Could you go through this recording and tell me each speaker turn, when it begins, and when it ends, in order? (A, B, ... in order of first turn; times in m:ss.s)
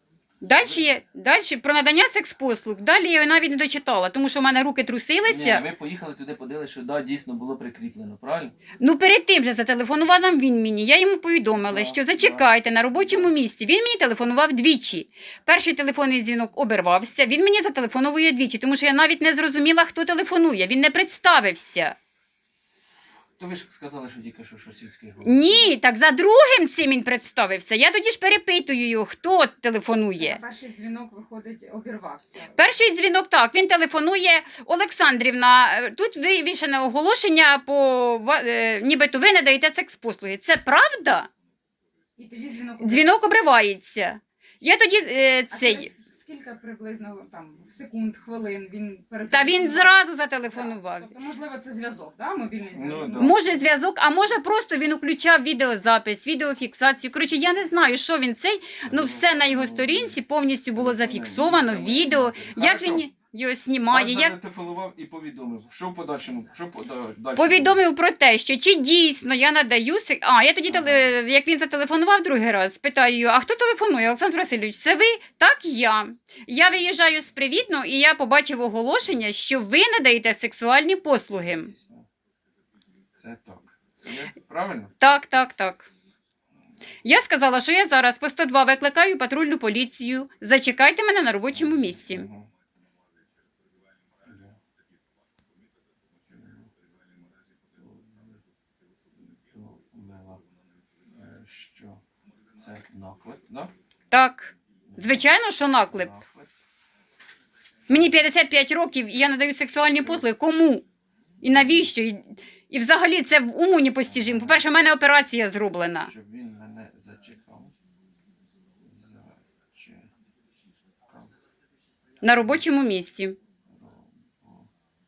0:00.4-0:05.6 A
0:00.6-0:01.0 B
0:05.2-0:08.6 B
0:08.8-0:22.0 A
0:11.6-0:13.3 B
0:23.4-0:25.7 B
0:25.2-0:30.4 A
0:30.2-0:32.6 C
0:32.5-0:41.3 A
0:42.2-0:43.1 C
0:42.8-0:45.9 A
0:45.5-0:53.5 C
0:49.2-0:51.1 A
0:52.7-0:53.4 B
0:53.1-1:04.4 A
0:58.8-1:00.2 B
1:00.7-1:03.0 B
1:03.9-1:07.8 B
1:07.4-1:21.7 A
1:10.7-1:11.1 B
1:21.5-1:22.1 B
1:23.2-1:24.9 B
1:25.0-1:25.9 A
1:27.0-1:32.3 A
1:31.5-1:32.5 B
1:34.2-1:34.6 B
1:36.3-1:36.7 B
1:37.7-1:38.4 B
1:39.2-1:40.4 B
1:41.1-1:42.0 B
1:42.6-1:43.7 B
1:44.1-1:46.1 A
1:44.8-1:46.5 B
1:47.9-1:50.8 A
1:51.4-1:51.9 B
1:51.4-1:56.1 A
1:54.0-1:54.6 B
1:56.0-1:57.7 B
1:58.8-2:00.1 B
2:01.0-2:01.3 B
2:02.2-2:03.4 A
2:03.6-2:04.7 B